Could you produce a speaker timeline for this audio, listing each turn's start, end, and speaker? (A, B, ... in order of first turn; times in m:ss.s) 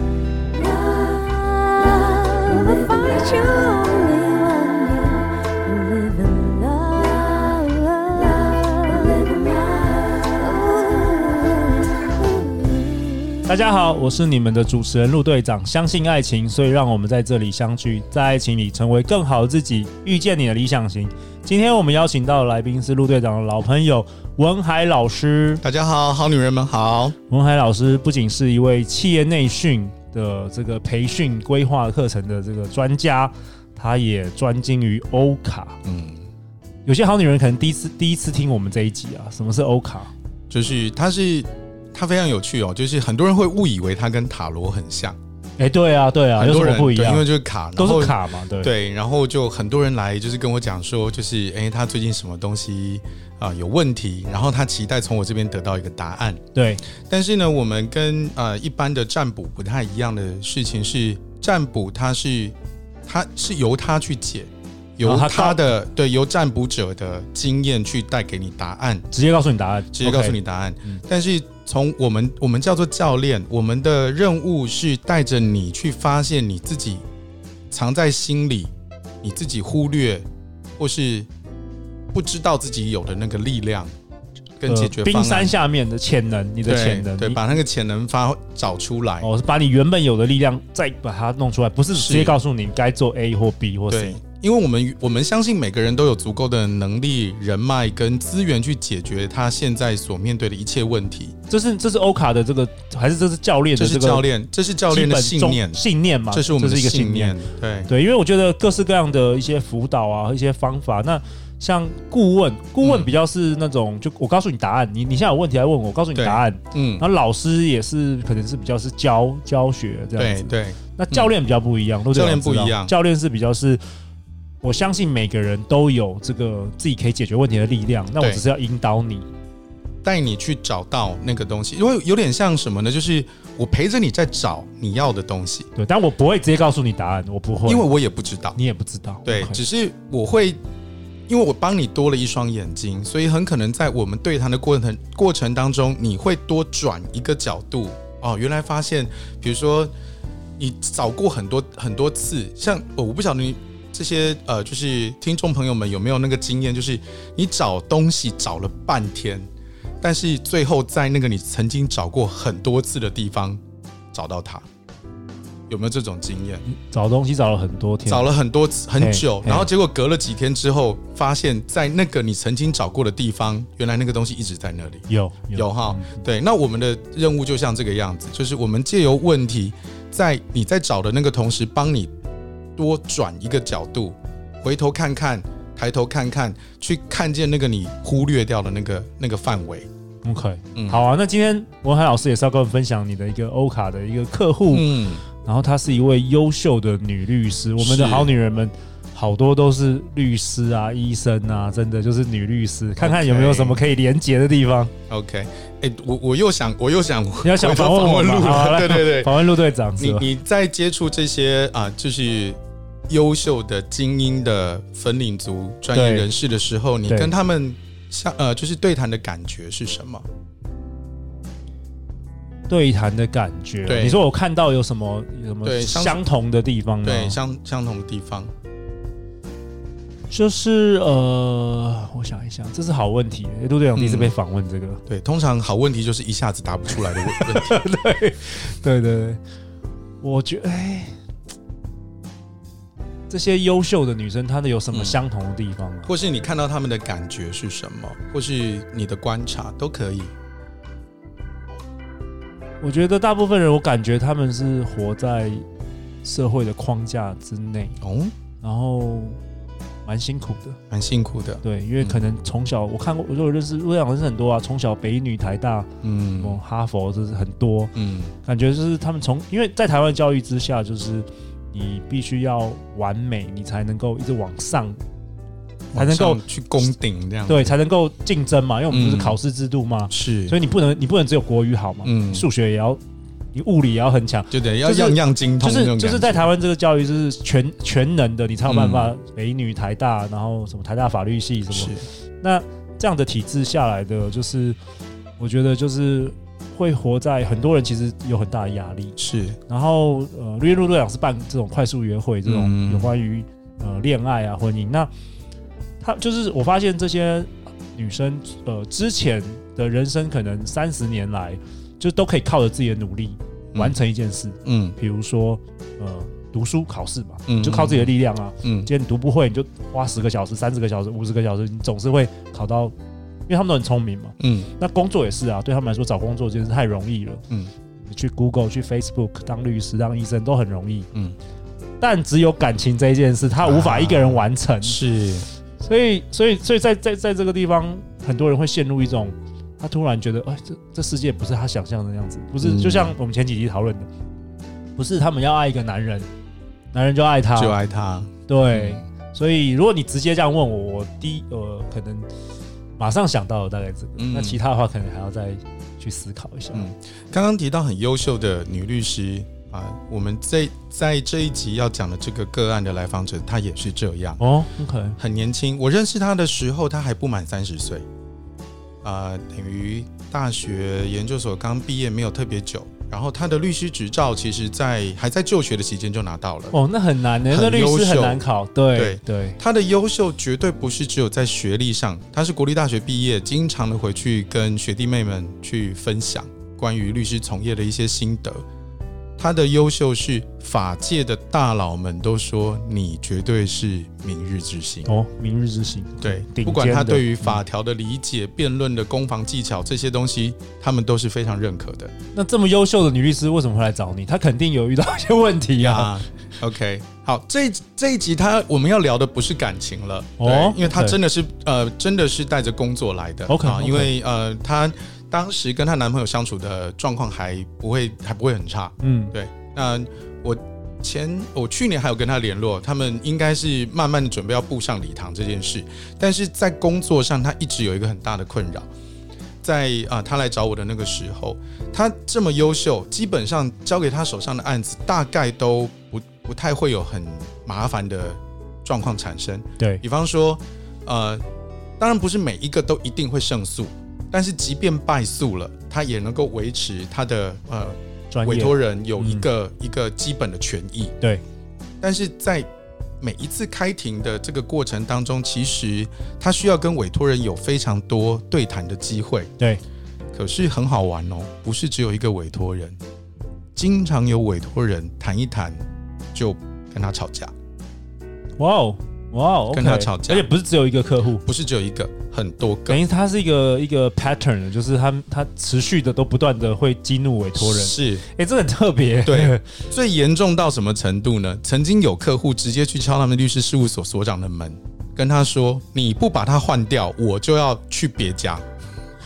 0:01.8-0:05.2 A
0:06.0-0:09.7 A
0:10.6-0:11.5 A
0:13.4-0:25.6 B
0:25.6-0:27.2 C
0:27.3-0:35.8 B
0:35.8-0:36.2 C
0:36.9-0:40.1 B
0:40.5-0:45.2 C
0:45.6-0:48.7 B
0:46.4-0:56.4 C
0:56.6-0:56.8 B
0:57.0-1:02.6 C
1:03.1-1:09.1 C
1:05.0-1:05.7 B
1:09.1-1:11.0 B
1:09.9-1:17.0 C
1:17.7-1:20.2 C
1:20.8-1:21.3 C
1:22.1-1:23.9 C
1:24.6-1:25.5 C
1:24.7-1:27.4 B
1:26.6-1:29.3 C
1:29.2-1:34.2 B
1:31.9-1:32.4 C
1:33.9-1:41.3 C
1:41.5-1:44.3 B
1:43.8-1:47.9 C
1:44.9-2:03.8 B
1:52.8-1:53.1 C
1:56.2-1:57.0 C
2:00.2-2:01.3 C
2:02.1-2:02.9 C
2:04.6-2:09.3 B
2:10.0-2:15.7 C
2:15.8-2:17.9 B
2:17.7-2:18.6 C
2:18.6-2:19.6 B
2:19.2-2:20.6 C
2:21.3-2:29.9 C
2:30.6-2:39.5 C
2:40.0-2:43.6 C
2:44.1-2:44.6 C
2:45.7-2:46.6 C
2:46.7-2:48.3 B
2:48.1-3:02.1 C
2:49.0-2:49.7 B
2:55.1-2:56.2 B
3:02.8-3:09.9 C
3:10.2-3:24.9 B
3:14.7-3:15.2 C
3:17.8-3:18.3 C
3:23.0-3:23.8 C
3:25.1-3:29.4 C
3:27.4-3:30.3 B
3:30.0-3:40.3 C
3:35.9-3:36.3 B
3:42.7-3:47.4 B
3:43.9-3:44.2 C
3:45.6-3:46.2 C
3:47.0-3:48.5 C
3:50.3-3:55.0 B
3:54.0-3:54.3 C
3:55.1-3:57.8 C
3:56.9-3:59.4 B
4:00.2-4:01.1 B
4:03.3-4:06.1 B
4:04.9-4:05.2 C
4:06.1-4:10.3 C
4:12.8-4:15.6 B
4:16.2-4:18.0 B
4:18.0-4:18.3 C
4:18.6-4:19.4 B
4:20.1-4:20.8 B
4:20.9-4:22.2 C
4:21.6-4:25.9 B
4:26.0-4:26.6 C
4:26.4-4:27.9 B
4:28.0-4:28.3 C
4:28.4-4:35.0 B
4:35.9-4:36.9 B
4:36.0-4:37.7 C
4:37.5-4:43.0 B
4:38.9-4:39.4 C
4:40.1-4:40.6 C
4:42.0-4:42.5 C
4:43.5-4:54.8 B
4:44.5-4:46.5 C
4:48.6-4:49.1 C
4:51.7-4:52.1 C
4:55.4-4:59.2 B
4:59.2-4:59.6 C
4:59.7-5:05.1 B
5:02.4-5:03.1 C
5:06.0-5:22.9 B
5:14.6-5:15.0 C
5:17.5-5:18.9 C
5:23.5-5:27.4 B
5:24.4-5:24.7 C
5:28.0-5:31.1 B
5:32.0-5:35.0 B
5:33.6-5:35.5 C
5:35.8-5:44.1 B
5:42.6-5:43.2 C
5:45.0-5:46.3 B
5:46.9-5:47.8 B
5:47.5-5:49.0 C
5:48.5-5:52.3 B
5:53.0-5:56.9 B
5:54.2-5:54.6 C
5:56.7-6:04.4 C
6:04.4-6:05.2 B
6:05.2-6:08.0 C
6:09.0-6:16.8 C
6:16.7-6:19.6 B
6:17.5-6:18.4 C
6:19.0-6:28.6 C
6:29.4-6:35.1 C
6:35.1-6:37.6 B
6:36.2-6:42.1 C
6:42.3-6:46.1 B
6:45.8-7:08.9 C
6:50.4-6:51.2 B
6:53.5-6:54.1 B
6:59.0-6:59.3 B
7:09.6-7:21.4 C
7:22.0-7:31.1 C
7:28.3-7:29.5 B
7:32.0-7:32.7 C
7:33.2-7:39.5 C
7:40.3-7:43.0 C
7:43.8-7:45.8 C
7:46.3-7:47.5 C
7:48.6-7:51.4 B
7:49.7-7:50.5 C
7:51.4-7:53.0 C
7:52.9-7:59.6 B
7:57.6-7:58.2 C
7:59.2-8:08.6 C